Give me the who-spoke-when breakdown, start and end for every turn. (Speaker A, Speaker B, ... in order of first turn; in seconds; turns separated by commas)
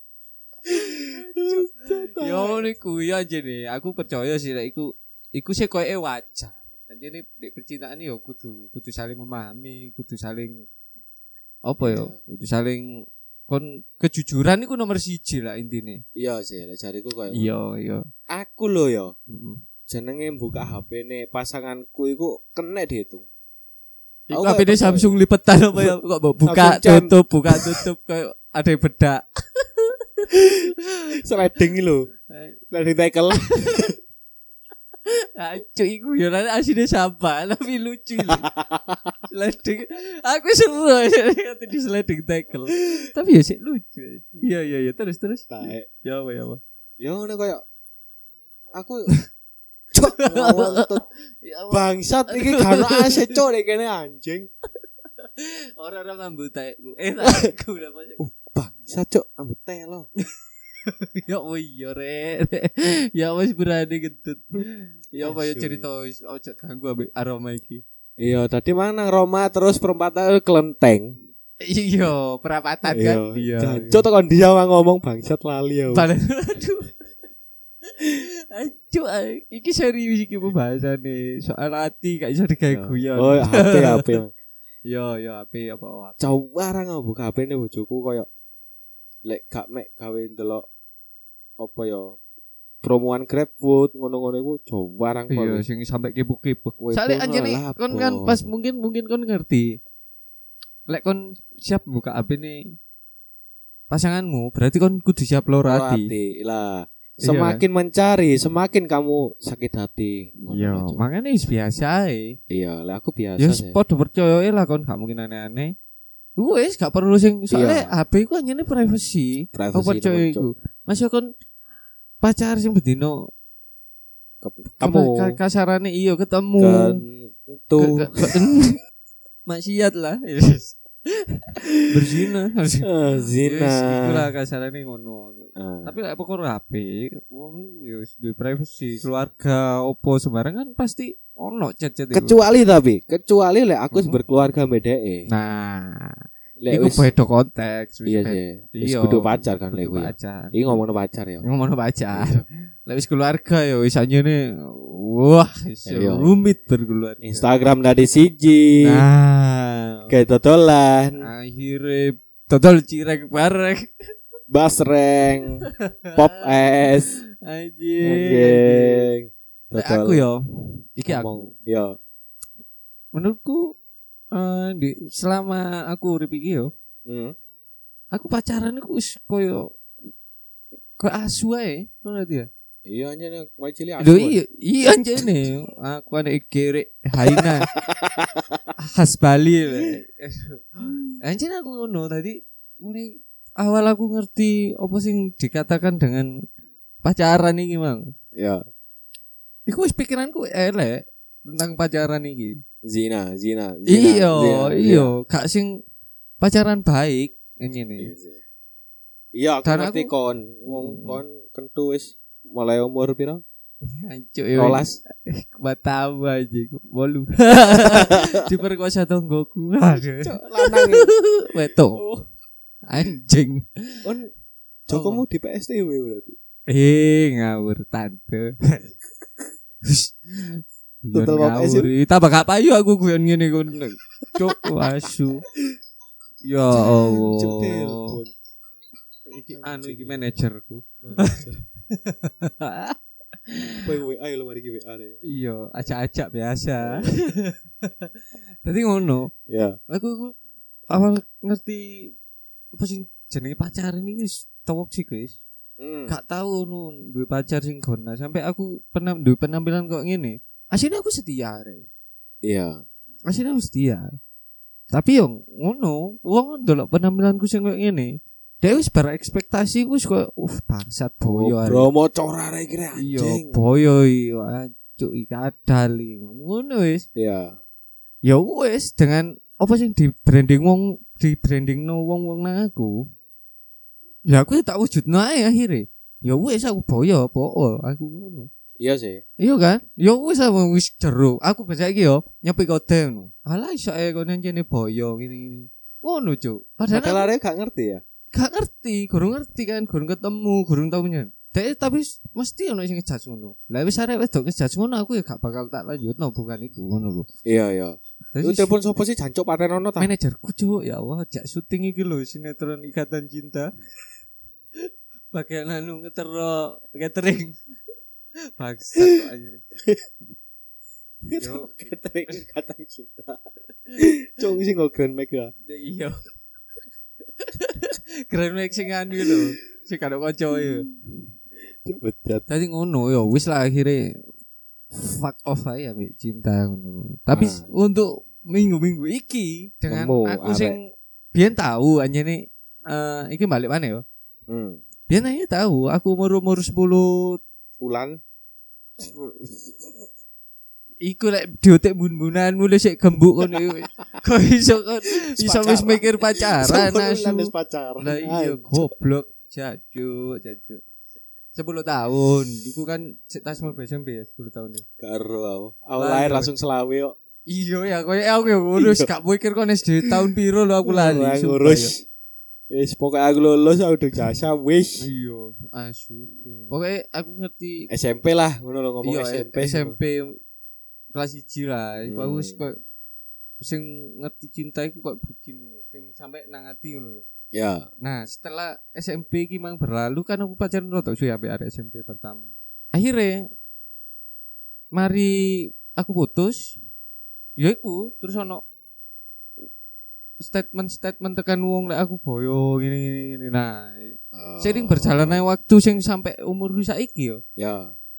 Speaker A: 0.7-2.7, Speaker B: 1.1-10.6, Speaker B: 11.7-16.0, Speaker A: 11.8-12.2, Speaker A: 16.1-17.5, Speaker B: 17.3-18.1, Speaker A: 18.3-19.1, Speaker B: 19.3-19.6, Speaker A: 19.9-23.3, Speaker B: 24.3-30.3, Speaker A: 24.3-25.1, Speaker A: 26.5-27.8, Speaker A: 30.3-32.1, Speaker B: 32.3-32.6, Speaker A: 32.7-33.9, Speaker B: 33.3-33.9, Speaker B: 35.1-38.5, Speaker A: 38.2-39.1, Speaker B: 39.3-46.6, Speaker A: 45.5-45.9, Speaker A: 47.0-47.6, Speaker A: 48.7-49.1, Speaker A: 49.9-51.0, Speaker B: 50.0-50.9, Speaker B: 51.4-53.4, Speaker A: 51.7-54.5, Speaker B: 55.2-58.2, Speaker A: 58.2-60.1, Speaker B: 60.9-67.8, Speaker A: 65.2-65.8, Speaker A: 68.2-71.1, Speaker B: 71.6-74.0, Speaker A: 72.9-76.1, Speaker B: 75.9-76.9, Speaker B: 77.9-84.1, Speaker A: 82.7-84.3, Speaker B: 84.9-86.3, Speaker A: 86.2-88.3, Speaker A: 89.2-90.7, Speaker A: 91.6-92.2, Speaker A: 92.8-95.6, Speaker B: 95.3-99.8, Speaker A: 96.8-98.4, Speaker B: 100.9-102.6, Speaker B: 103.9-106.1, Speaker A: 105.7-111.0, Speaker B: 107.2-107.6, Speaker B: 110.5-112.4, Speaker A: 112.5-113.8, Speaker B: 113.4-115.7, Speaker B: 116.4-121.3, Speaker A: 117.5-117.9, Speaker A: 119.5-120.5, Speaker B: 122.2-123.2, Speaker A: 124.4-125.4, Speaker B: 124.7-127.0, Speaker A: 126.6-128.3, Speaker B: 127.8-128.8, Speaker B: 129.5-142.4, Speaker A: 132.8-134.3, Speaker A: 135.6-135.9, Speaker A: 142.1-145.3, Speaker B: 143.9-144.2, Speaker B: 145.3-150.8, Speaker A: 146.6-147.1, Speaker A: 148.1-151.4, Speaker B: 151.4-157.5, Speaker A: 152.1-152.4, Speaker A: 155.9-156.3, Speaker A: 157.2-159.0, Speaker B: 158.8-160.1, Speaker A: 160.1-161.2, Speaker B: 161.2-163.9, Speaker A: 164.5-167.2, Speaker B: 165.9-166.4, Speaker B: 167.4-169.1, Speaker A: 168.1-170.2, Speaker B: 169.8-170.4, Speaker B: 171.0-171.5, Speaker A: 171.1-171.9, Speaker B: 173.1-173.7, Speaker B: 174.3-176.7, Speaker A: 177.1-177.3, Speaker B: 178.1-179.7, Speaker B: 181.0-182.5, Speaker A: 182.9-184.4, Speaker B: 184.0-187.7, Speaker A: 187.3-188.6, Speaker B: 188.8-196.3, Speaker B: 197.0-198.0, Speaker A: 198.3-198.6, Speaker B: 199.7-202.6, Speaker A: 202.8-205.1, Speaker B: 203.9-205.7, Speaker B: 206.4-208.1, Speaker A: 208.0-208.4, Speaker A: 209.3-213.4, Speaker B: 209.6-210.1, Speaker B: 210.7-211.2, Speaker B: 213.8-222.0, Speaker A: 214.6-215.0, Speaker A: 217.7-218.4, Speaker A: 220.2-221.1, Speaker A: 221.9-222.3, Speaker B: 222.9-224.0, Speaker A: 224.9-226.4, Speaker B: 224.9-225.2, Speaker B: 226.7-228.8, Speaker B: 229.8-235.4, Speaker A: 231.1-231.9, Speaker B: 236.4-238.2, Speaker A: 236.7-238.3, Speaker A: 239.4-240.2, Speaker B: 239.5-242.9, Speaker A: 241.0-241.6, Speaker B: 243.5-243.9, Speaker A: 243.8-245.2, Speaker B: 245.3-248.1, Speaker A: 246.8-247.1, Speaker B: 248.6-249.3, Speaker A: 249.5-249.8, Speaker B: 249.9-250.3, Speaker B: 250.9-252.1, Speaker B: 252.8-255.4, Speaker A: 255.8-256.1, Speaker B: 256.1-261.9, Speaker A: 262.4-262.8, Speaker B: 263.3-264.1, Speaker B: 264.9-271.9, Speaker A: 271.2-273.6, Speaker B: 273.0-277.1, Speaker A: 277.1-277.6, Speaker B: 278.2-283.0, Speaker B: 284.3-288.5, Speaker A: 288.8-289.2, Speaker B: 289.4-297.3, Speaker A: 296.9-298.0, Speaker B: 298.3-307.3, Speaker A: 307.4-310.1, Speaker B: 308.3-308.7, Speaker B: 310.0-313.7, Speaker B: 314.8-317.6, Speaker B: 318.6-319.6, Speaker A: 321.3-323.4, Speaker B: 321.4-321.7, Speaker A: 324.0-325.5, Speaker B: 325.7-326.1, Speaker B: 327.4-330.9, Speaker A: 330.6-330.9, Speaker A: 331.9-332.4, Speaker B: 332.5-334.1, Speaker B: 334.9-340.8, Speaker A: 337.3-337.7, Speaker A: 339.9-340.8, Speaker B: 341.3-344.0, Speaker A: 344.5-344.8, Speaker B: 345.1-347.4, Speaker A: 347.8-348.2, Speaker A: 349.0-349.5, Speaker B: 351.0-360.8, Speaker A: 355.4-358.9, Speaker B: 361.5-364.8, Speaker A: 365.0-367.1, Speaker B: 366.0-366.5, Speaker B: 367.5-371.9, Speaker A: 368.8-369.1, Speaker A: 370.9-372.0, Speaker A: 372.7-375.0, Speaker B: 375.0-377.9, Speaker A: 376.4-376.7, Speaker A: 377.9-380.0, Speaker B: 379.0-380.4, Speaker B: 381.1-382.8, Speaker A: 382.1-382.6, Speaker B: 383.6-387.2, Speaker A: 387.5-387.9, Speaker B: 388.0-393.4, Speaker B: 394.9-395.3, Speaker B: 395.9-396.8, Speaker B: 397.6-398.6, Speaker B: 400.4-407.4, Speaker A: 404.3-405.4, Speaker A: 407.6-407.9